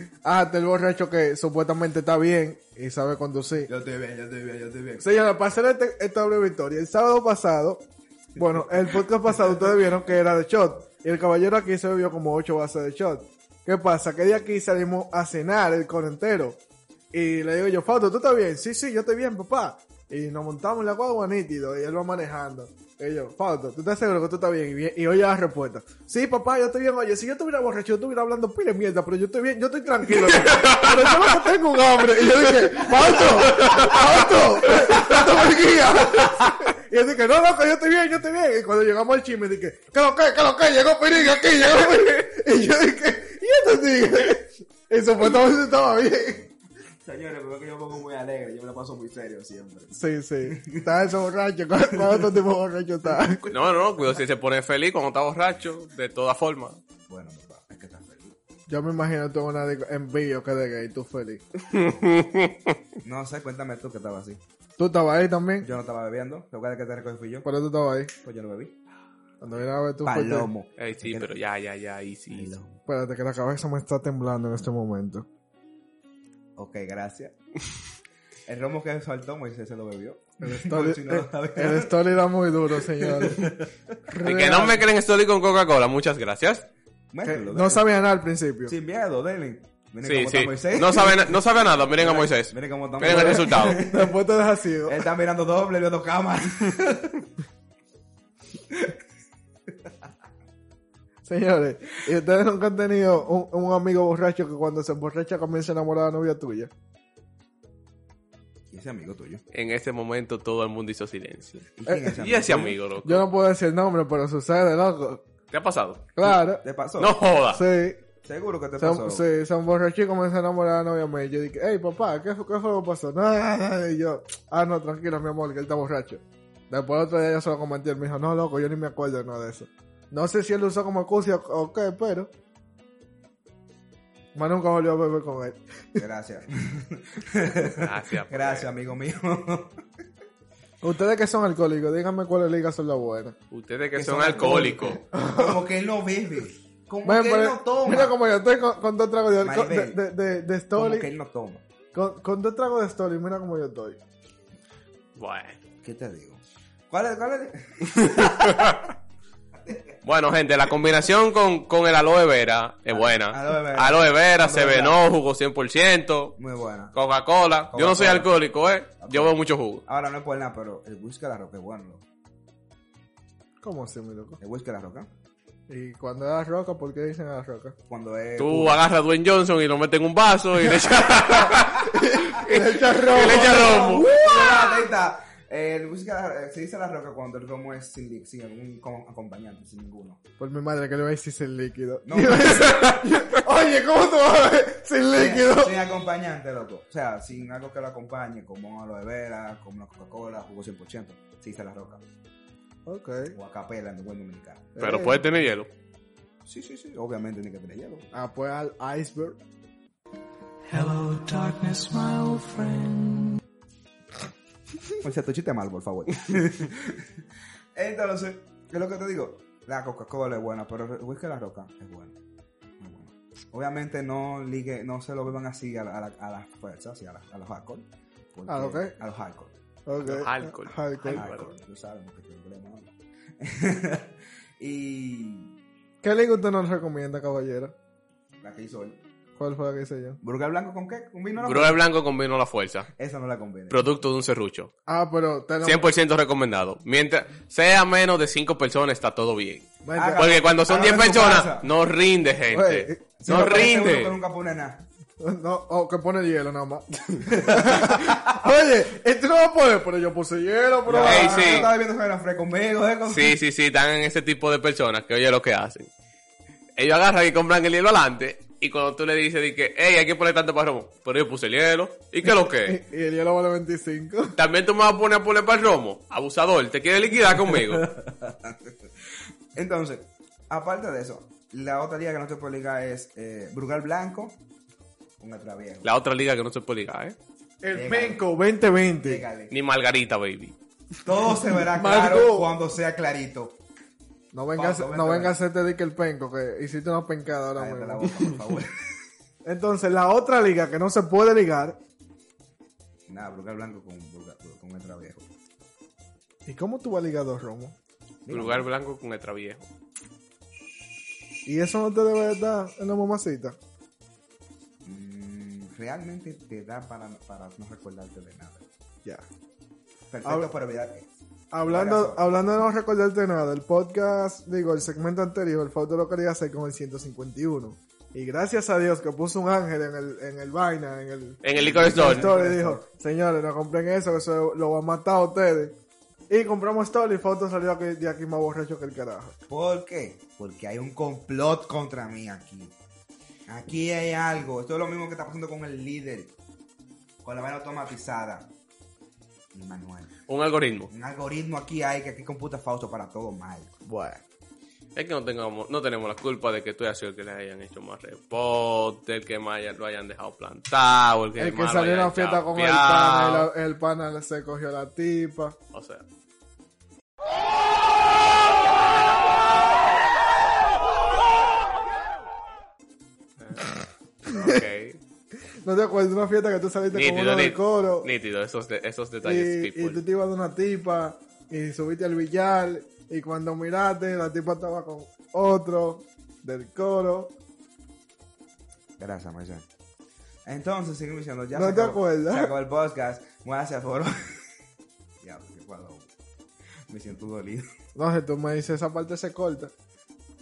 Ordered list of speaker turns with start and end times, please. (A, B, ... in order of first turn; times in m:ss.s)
0:00.2-0:03.7 A
0:03.7-0:05.1 B
0:05.0-0:16.6 A
0:08.4-0:08.7 B
0:17.1-0:46.5 A
0:30.6-0:30.8 C
0:47.0-0:50.9 B
0:49.9-0:53.4 A
0:52.0-0:52.2 B
0:53.2-0:53.5 B
0:53.5-0:56.8 C
0:57.1-0:58.4 B
0:58.7-1:01.4 A
1:01.7-1:02.8 C
1:03.0-1:04.4 B
1:04.8-1:05.7 A
1:05.6-1:07.5 B
1:07.4-1:08.1 A
1:08.2-1:08.7 B
1:09.4-1:10.5 A
1:10.0-1:11.3 B
1:10.8-1:12.6 C
1:12.3-1:12.8 B
1:12.9-1:15.3 A
1:16.6-1:17.3 B
1:18.5-1:22.0 B
1:20.4-1:23.5 A
1:22.9-1:23.7 B
1:24.1-1:24.8 A
1:24.2-1:26.7 C
1:27.1-1:27.8 B
1:27.2-1:28.7 A
1:28.6-1:31.4 B
1:30.0-1:33.8 C
1:31.9-1:34.2 B
1:33.0-1:35.0 A
1:34.8-1:37.3 B
1:41.2-1:46.7 A
1:48.7-1:49.4 B
1:49.5-1:53.2 C
1:51.8-1:52.8 B
1:51.9-1:52.1 A
1:53.0-1:55.2 A
1:55.5-1:56.2 C
1:56.2-1:56.6 A
1:56.6-1:57.2 B
1:57.0-1:57.6 C
1:57.5-1:58.0 A
1:58.2-1:59.2 B
1:58.8-2:12.3 A
2:14.3-2:16.0 A
2:16.0-2:19.8 B
2:17.6-2:18.7 C
2:20.8-2:23.4 A
2:23.5-2:25.0 C
2:23.9-2:28.2 B
2:24.4-2:25.6 A
2:27.0-2:31.1 A
2:29.4-2:30.0 B
2:30.7-2:31.6 B
2:31.9-2:34.0 A
2:35.2-2:35.6 C
2:35.8-2:38.8 B
2:37.9-2:38.8 C
2:40.0-2:46.4 C
2:42.9-2:45.0 B
2:46.4-2:46.9 B
2:46.9-2:49.8 C
2:47.7-2:48.3 B
2:49.0-2:52.0 B
2:53.6-2:54.4 A
2:54.4-2:55.1 B
2:55.7-2:57.8 A
2:57.9-2:58.8 B
2:58.4-3:04.1 C
3:01.5-3:04.8 A
3:03.1-3:10.2 B
3:10.4-3:15.8 A
3:12.0-3:13.0 B
3:15.1-3:22.0 B
3:22.8-3:23.4 A
3:23.3-3:24.7 B
3:24.8-3:25.2 A
3:24.8-3:25.7 C
3:26.4-3:28.1 B
3:28.1-3:29.4 A
3:30.7-3:33.4 D
3:35.0-3:37.1 B
3:37.7-3:42.1 B
3:42.8-3:49.5 B
3:48.5-3:48.9 A
3:49.8-3:51.3 A
3:50.0-3:51.5 C
3:51.1-3:55.5 B
3:56.0-3:57.7 A
3:58.4-3:59.0 B
3:59.4-4:00.2 A
4:00.2-4:01.8 B
4:01.4-4:02.9 C
4:03.0-4:03.9 B
4:03.7-4:04.7 C
4:04.8-4:05.9 A
4:05.6-4:14.1 C
4:09.8-4:10.3 A
4:09.9-4:11.7 B
4:12.5-4:13.0 A
4:13.2-4:14.8 B
4:15.2-4:21.7 A
4:17.3-4:18.4 B
4:20.8-4:23.4 B
4:21.0-4:21.7 C
4:23.1-4:25.9 C
4:26.8-4:32.8 C
4:32.2-4:34.4 A
4:34.4-4:37.9 C
4:37.8-4:38.7 B
4:39.5-4:44.4 B
4:45.2-4:45.8 B
4:45.8-4:47.2 C
4:47.6-4:49.2 A
4:47.7-4:48.2 B
4:49.0-4:49.5 B
4:49.5-4:50.6 C
4:51.0-4:53.6 B
4:51.7-4:52.5 A
4:54.3-4:58.4 A
4:54.5-4:55.3 B
4:57.6-4:58.7 B
4:59.4-5:01.8 A
5:03.1-5:05.3 B
5:06.4-5:07.8 A
5:08.2-5:08.7 B
5:08.3-5:09.7 C
5:11.4-5:13.6 A
5:14.8-5:18.6 B
5:20.1-5:21.1 B
5:21.5-5:35.8 A
5:21.6-5:22.3 B
5:31.4-5:32.3 C
5:31.5-5:32.8 B
5:36.3-5:39.4 A
5:39.5-5:42.7 B
5:43.5-5:46.3 B
5:47.2-5:48.5 B
5:49.5-5:50.1 B
5:50.3-5:50.9 C
5:50.9-5:53.7 B
5:53.8-5:54.2 A
5:54.9-6:03.5 C
6:01.4-6:05.6 A
6:05.7-6:06.0 C
6:13.4-6:13.7 C
6:14.2-6:15.0 C
6:14.3-6:14.6 A
6:15.6-6:18.1 A
6:16.9-6:20.0 C
6:19.2-6:27.3 A
6:29.0-6:29.6 B
6:30.4-6:34.4 B
6:31.5-6:32.5 A
6:35.2-6:36.1 B
6:36.9-6:37.7 B
6:37.9-6:39.7 A